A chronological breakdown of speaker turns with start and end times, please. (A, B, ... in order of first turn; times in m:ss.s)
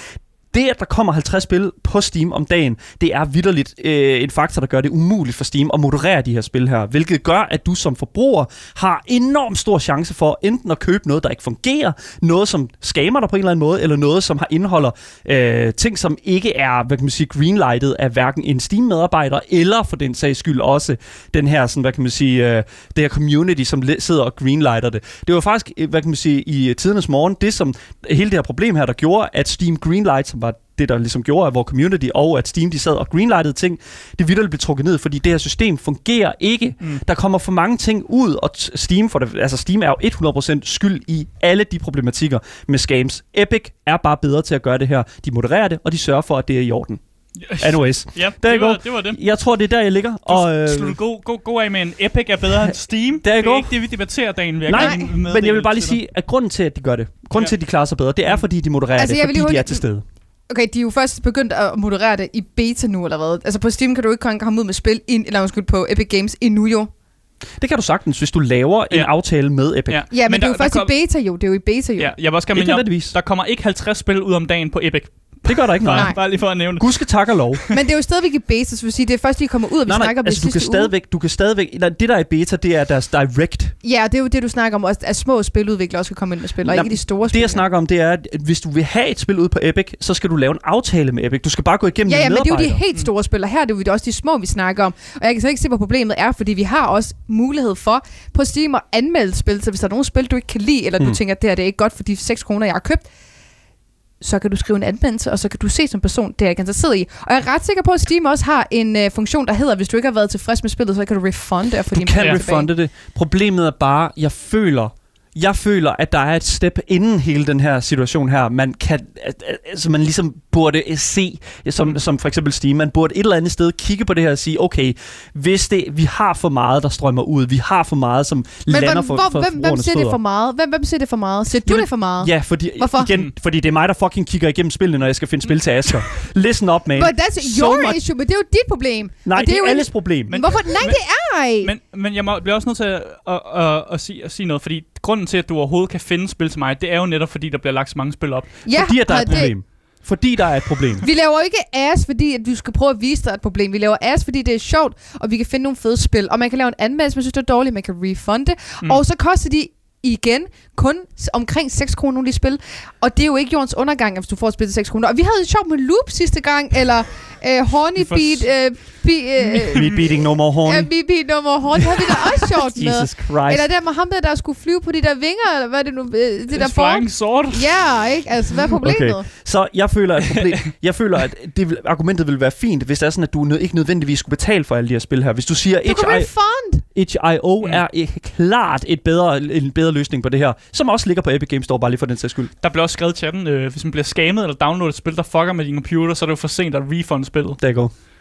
0:00.5-0:47.0 A
0:47.4-0:49.2 B
0:47.6-0:51.0 A
0:50.3-0:56.0 B
0:53.2-0:53.7 A
0:54.7-1:00.0 A
0:54.7-0:55.0 C
0:59.0-0:59.8 C
1:00.5-1:06.9 C
1:07.6-1:10.0 A
1:09.9-1:10.9 B
1:10.1-1:12.1 C
1:12.0-1:16.9 B
1:12.5-1:13.2 A
1:15.5-1:16.2 A
1:15.9-1:16.2 C
1:16.7-1:17.6 A
1:17.7-1:20.9 C
1:19.9-1:23.7 A
1:23.8-1:27.6 C
1:26.6-1:32.8 A
1:32.1-1:43.1 C
1:44.2-1:52.7 C
1:51.9-2:10.2 A
2:08.7-2:13.1 C
2:11.6-2:18.0 A
2:17.0-2:21.7 C
2:19.3-2:20.3 A
2:20.3-2:21.0 B
2:21.6-2:28.6 B
2:28.7-2:29.5 C
2:28.7-2:31.0 A
2:31.0-2:50.0 C
2:48.0-2:48.5 B
2:49.7-2:50.9 A
2:50.6-2:59.2 C
2:51.8-2:53.7 A
2:56.5-2:57.7 B
2:58.8-3:06.3 A
3:00.3-3:00.6 B
3:05.8-3:06.8 C
3:06.9-3:12.5 A
3:12.6-3:17.6 B
3:17.6-3:17.9 A